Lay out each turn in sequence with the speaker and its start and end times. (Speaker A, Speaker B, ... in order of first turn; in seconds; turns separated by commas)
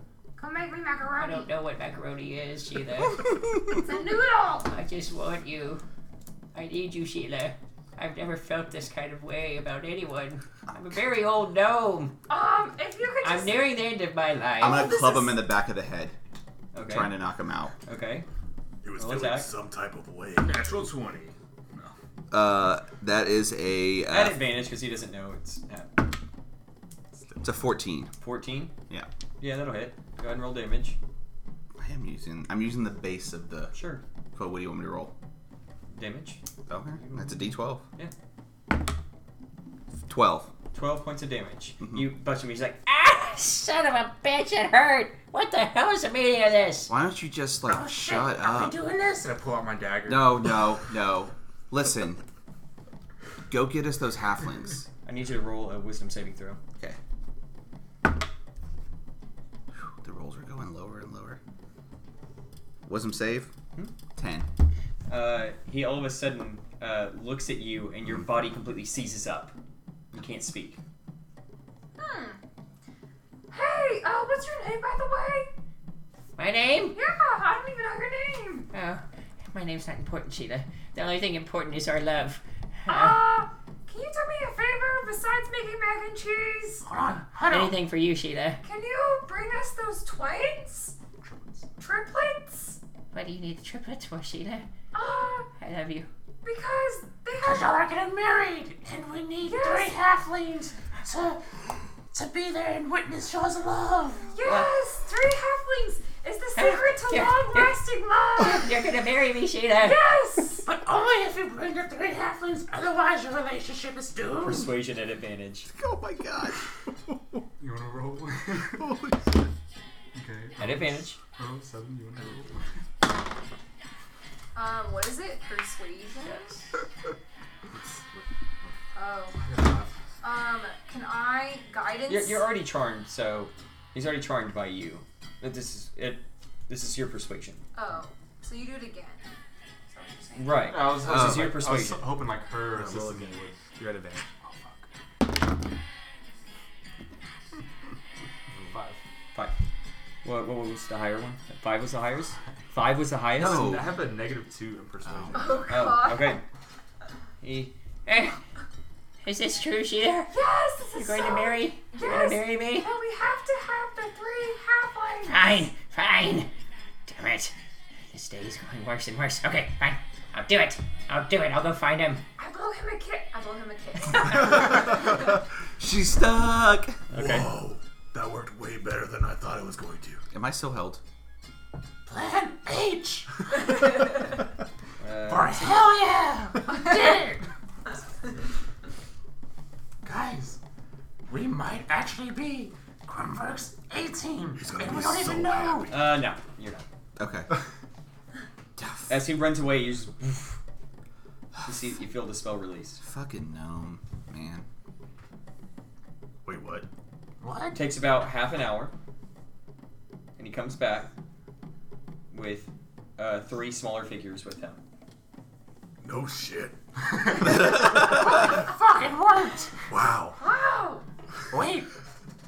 Speaker A: 0.4-1.5, Speaker B: 1.1-3.4, Speaker A: 3.7-4.7, Speaker B: 4.7-5.8, Speaker B: 6.5-12.2, Speaker A: 12.3-13.7, Speaker B: 13.2-15.0, Speaker A: 14.6-15.4, Speaker C: 14.6-16.2, Speaker D: 16.7-17.1, Speaker C: 16.8-17.7, Speaker D: 17.8-18.3, Speaker E: 18.8-20.6, Speaker D: 19.0-19.5, Speaker F: 20.4-21.9, Speaker C: 22.3-24.4, Speaker D: 24.1-26.0, Speaker E: 27.1-27.6, Speaker C: 27.4-28.1, Speaker D: 28.2-28.7, Speaker D: 29.4-31.0, Speaker C: 31.8-33.8, Speaker D: 33.7-34.0, Speaker C: 34.3-35.1, Speaker D: 35.9-36.4, Speaker C: 36.7-37.8, Speaker D: 36.9-38.1, Speaker C: 40.1-40.5, Speaker D: 40.7-42.9, Speaker C: 41.8-42.1, Speaker B: 42.9-46.9, Speaker C: 46.9-48.8, Speaker G: 47.7-49.4, Speaker F: 49.2-50.7, Speaker C: 50.1-52.2, Speaker C: 53.5-54.9, Speaker D: 55.0-56.6, Speaker C: 59.8-61.4, Speaker C: 62.9-63.5, Speaker C: 64.2-64.5, Speaker D: 65.1-69.5, Speaker D: 70.1-70.8, Speaker A: 72.0-72.4, Speaker A: 73.5-75.5, Speaker B: 76.4-77.0, Speaker A: 76.9-78.7, Speaker B: 78.7-83.2, Speaker A: 82.9-86.9, Speaker G: 86.8-87.8, Speaker B: 87.5-88.6, Speaker A: 88.6-91.0, Speaker F: 91.2-91.7, Speaker A: 91.8-92.8, Speaker B: 93.1-94.7, Speaker A: 94.9-95.5, Speaker B: 95.6-96.1, Speaker A: 96.4-97.8, Speaker G: 97.4-101.4, Speaker A: 99.5-100.0, Speaker G: 102.1-104.3, Speaker A: 104.3-108.8, Speaker B: 104.4-104.8, Speaker B: 106.5-107.8, Speaker B: 108.4-110.0, Speaker A: 109.8-110.7, Speaker G: 110.7-114.7, Speaker D: 114.4-115.7, Speaker C: 115.7-116.6, Speaker F: 117.6-119.0, Speaker E: 118.8-119.3, Speaker F: 120.1-122.6, Speaker D: 120.6-121.2, Speaker A: 124.5-126.6, Speaker D: 126.2-126.5, Speaker E: 127.7-128.2, Speaker A: 128.9-129.4, Speaker F: 129.4-129.9, Speaker A: 130.2-132.5, Speaker D: 132.1-137.6, Speaker A: 137.7-139.2, Speaker A: 139.9-140.7, Speaker D: 140.3-142.1, Speaker F: 140.6-143.7, Speaker C: 141.1-141.5, Speaker E: 142.7-144.3, Speaker F: 144.4-144.9, Speaker F: 148.6-149.0, Speaker D: 150.2-153.8, Speaker C: 153.4-153.9, Speaker F: 153.4-156.0, Speaker C: 155.1-155.4, Speaker A: 155.3-156.4, Speaker D: 155.7-156.4, Speaker D: 157.4-157.8, Speaker B: 158.1-158.4, Speaker B: 159.2-160.4, Speaker A: 160.3-165.5, Speaker B: 160.9-162.9, Speaker B: 165.2-166.5, Speaker B: 167.1-167.5, Speaker B: 168.1-172.2, Speaker A: 172.4-175.0, Speaker C: 175.8-177.0, Speaker D: 177.1-177.5, Speaker E: 177.1-180.2, Speaker C: 180.3-181.0, Speaker G: 182.1-183.5, Speaker D: 185.0-185.9, Speaker G: 185.3-187.4, Speaker G: 190.0-190.6, Speaker G: 191.3-195.9, Speaker E: 194.6-196.1, Speaker D: 195.9-196.9, Speaker C: 197.2-197.5, Speaker C: 198.8-199.2, Speaker D: 199.1-200.6, Speaker D: 201.7-203.0, Speaker C: 203.0-204.7, Speaker E: 206.4-206.9, Speaker G: 207.4-207.8, Speaker D: 207.7-208.9, Speaker D: 210.4-211.1, Speaker D: 212.3-214.8, Speaker E: 216.0-216.8, Speaker G: 217.5-219.7, Speaker E: 219.9-220.4, Speaker A: 220.4-221.1, Speaker G: 221.5-221.9